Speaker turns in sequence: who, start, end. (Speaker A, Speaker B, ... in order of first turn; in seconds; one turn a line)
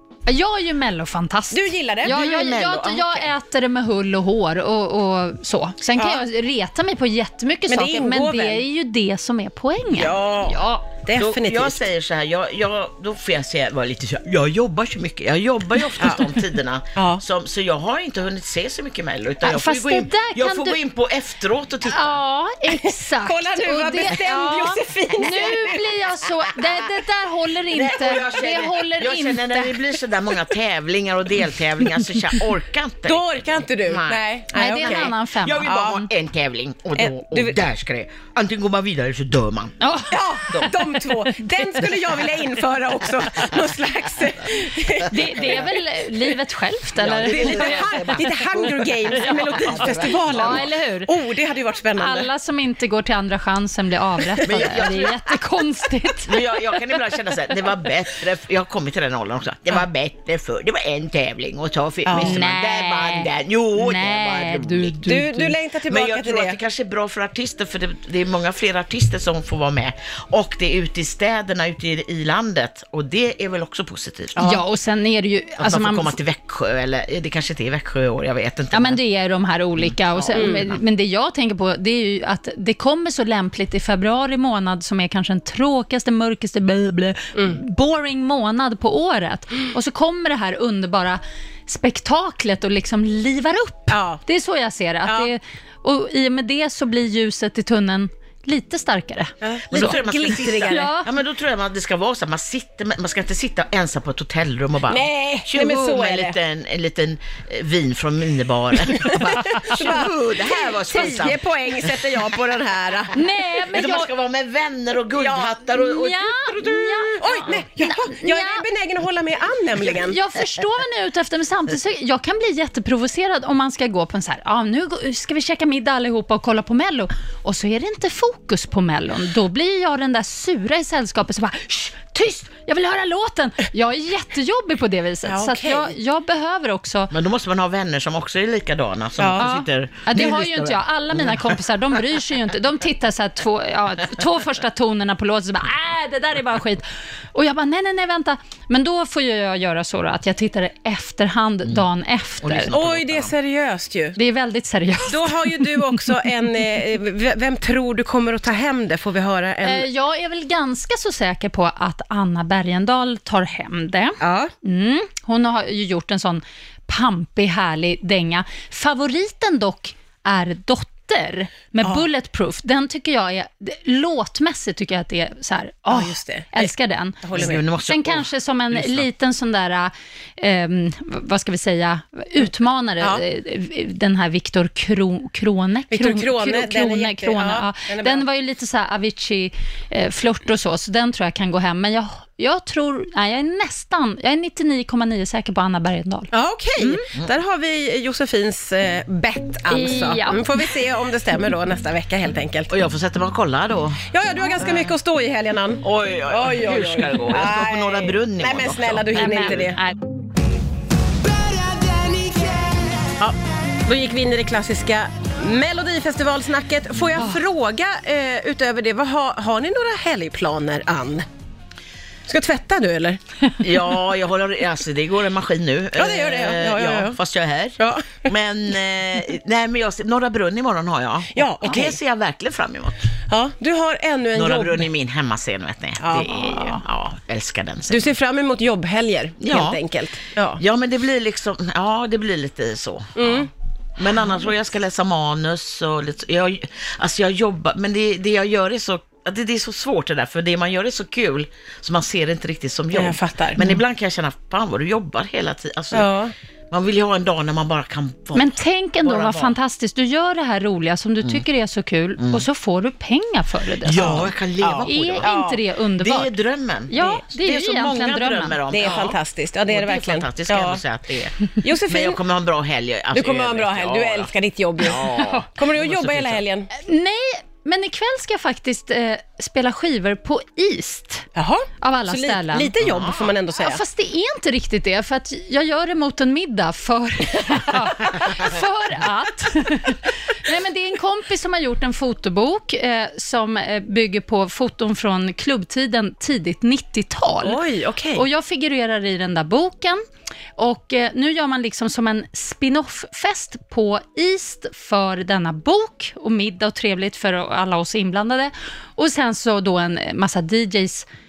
Speaker A: 0.3-10.8
Speaker B: 1.5-2.2
Speaker C: 2.0-3.3
Speaker B: 6.0-6.2
Speaker B: 7.7-8.7
Speaker B: 9.9-11.8
Speaker C: 11.2-22.2
Speaker B: 16.0-16.2
Speaker B: 16.9-17.2
Speaker A: 19.4-20.8
Speaker A: 21.8-30.0
Speaker B: 22.7-25.9
Speaker C: 27.7-34.2
Speaker A: 31.9-32.4
Speaker B: 33.0-36.1
Speaker A: 34.5-35.7
Speaker C: 34.8-39.8
Speaker B: 37.0-37.6
Speaker A: 39.8-42.3
Speaker B: 40.1-45.7
Speaker A: 45.0-48.3
Speaker C: 47.0-50.7
Speaker B: 47.2-52.3
Speaker A: 49.1-51.1
Speaker A: 51.9-56.4
Speaker C: 54.4-55.2
Speaker C: 56.3-65.1
Speaker B: 62.0-62.4
Speaker A: 62.2-65.5
Speaker B: 65.0-66.6
Speaker C: 65.9-74.4
Speaker B: 74.3-74.6
Speaker A: 74.4-76.2
Speaker C: 75.6-79.0
Speaker A: 78.7-100.0
Speaker C: 79.8-80.8
Speaker B: 80.3-80.6
Speaker B: 93.9-94.2
Speaker B: 95.0-95.3
Speaker B: 99.4-100.9
Speaker C: 99.7-111.4
Speaker A: 100.7-101.1
Speaker B: 104.9-106.4
Speaker B: 109.0-113.1
Speaker A: 113.1-114.1
Speaker C: 113.7-116.4
Speaker B: 115.2-115.6
Speaker A: 115.7-118.7
Speaker B: 116.5-120.2
Speaker A: 119.9-137.1
Speaker B: 135.2-135.9
Speaker C: 137.1-141.6
Speaker B: 139.2-139.5
Speaker A: 139.4-152.7
Speaker C: 152.4-153.3
Speaker B: 152.7-154.2
Speaker A: 154.1-156.1
Speaker B: 155.1-159.9
Speaker A: 159.6-197.0
Speaker B: 164.2-164.5
Speaker B: 175.9-177.6
Speaker C: 177.3-179.1
Speaker B: 185.9-188.2
Speaker B: 196.3-202.8
Speaker A: 199.7-200.8
Speaker C: 202.7-204.0
Speaker B: 204.1-209.8
Speaker C: 205.8-209.7
Speaker A: 209.1-210.0
Speaker B: 211.9-212.4
Speaker B: 213.2-221.2
Speaker B: 222.3-223.2
Speaker C: 223.6-233.1
Speaker B: 225.9-227.2
Speaker B: 227.8-228.2
Speaker B: 231.3-232.0
Speaker B: 233.3-234.9
Speaker C: 234.3-238.1
Speaker B: 236.0-236.8
Speaker B: 237.9-240.6
Speaker C: 239.4-239.8
Speaker C: 240.6-256.1
Speaker B: 243.2-243.5
Speaker B: 252.9-253.6
Speaker B: 255.9-256.3
Speaker C: 256.7-259.6
Speaker A: 258.3-264.3
Speaker C: 262.2-262.4
Speaker C: 263.8-265.3
Speaker B: 264.0-265.6
Speaker A: 264.8-266.4
Speaker C: 266.0-269.2
Speaker A: 266.9-269.1
Speaker B: 268.7-270.8
Speaker C: 269.7-276.4
Speaker B: 271.6-272.2
Speaker B: 273.1-276.7
Speaker A: 274.9-275.4
Speaker A: 276.7-281.2
Speaker B: 281.3-283.8
Speaker A: 281.8-282.7
Speaker C: 282.8-283.3
Speaker A: 283.6-300.0
Speaker B: 297.4-298.2
Speaker A: 300.6-311.0